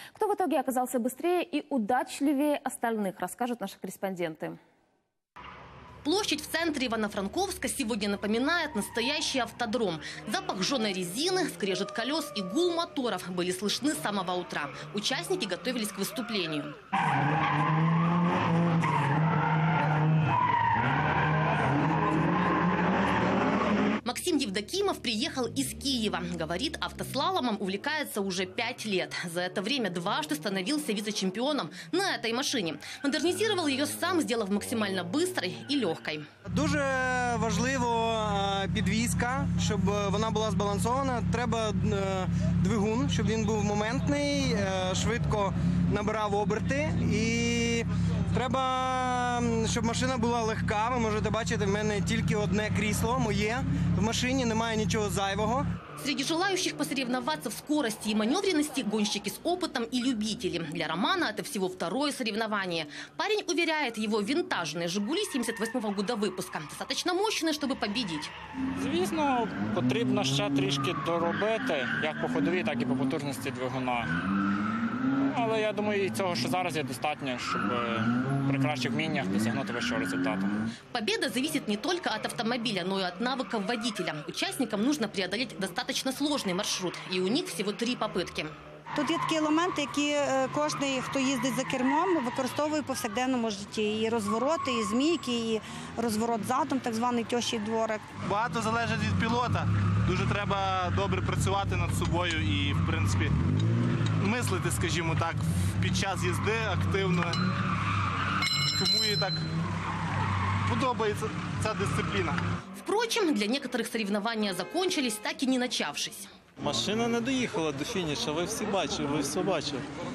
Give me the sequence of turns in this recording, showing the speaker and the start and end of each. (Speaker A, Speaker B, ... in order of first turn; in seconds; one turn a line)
Speaker A: 0.1-4.6
Speaker B: 6.0-16.7
Speaker B: 24.1-36.2
Speaker C: 36.5-55.6
Speaker B: 56.0-68.3
Speaker D: 68.8-74.1
Speaker D: 75.2-80.5
Speaker B: 80.9-88.5
Speaker E: 88.9-98.0
Speaker F: 98.2-103.3
Speaker F: 104.2-107.4
Speaker F: 108.8-109.4
Speaker F: 110.7-112.4
Speaker B: 112.8-116.3
Speaker G: 116.6-119.9